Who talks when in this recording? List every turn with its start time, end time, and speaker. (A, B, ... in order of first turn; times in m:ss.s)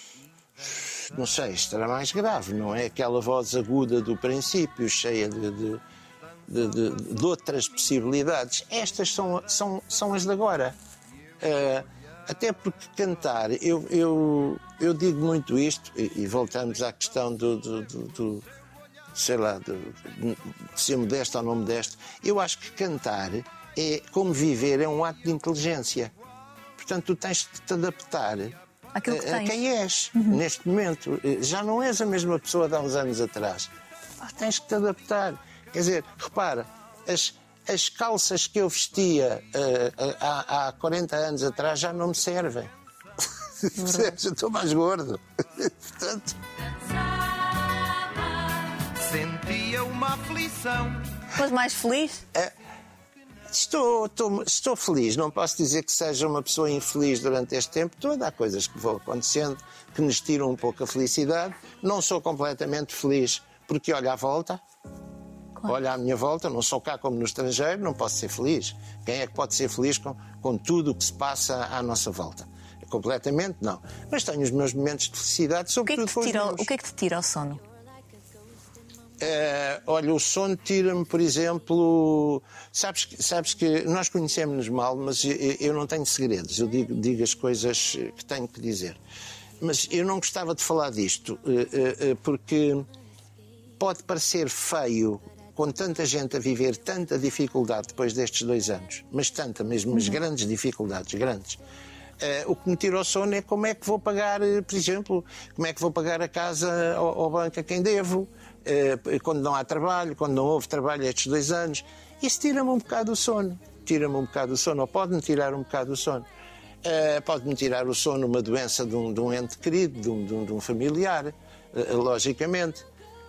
0:00.6-0:05.8 A
0:06.5-0:10.7 A
0:11.4-0:18.4 A
0:19.1-0:26.1 A
0:26.8-0:42.7 A
0:28.9-0:29.5 B
0:43.6-0:46.4 A
0:43.8-0:44.2 B
0:49.1-0:51.0 A
0:51.3-0:52.2 B
0:53.5-1:04.6 A
1:05.6-1:16.7 A
1:15.8-1:17.6 B
1:19.2-1:29.0 A
1:29.6-1:32.9 A
1:33.8-1:41.6 A
1:39.9-1:40.2 B
1:42.2-1:56.2 A
1:56.8-2:02.8 A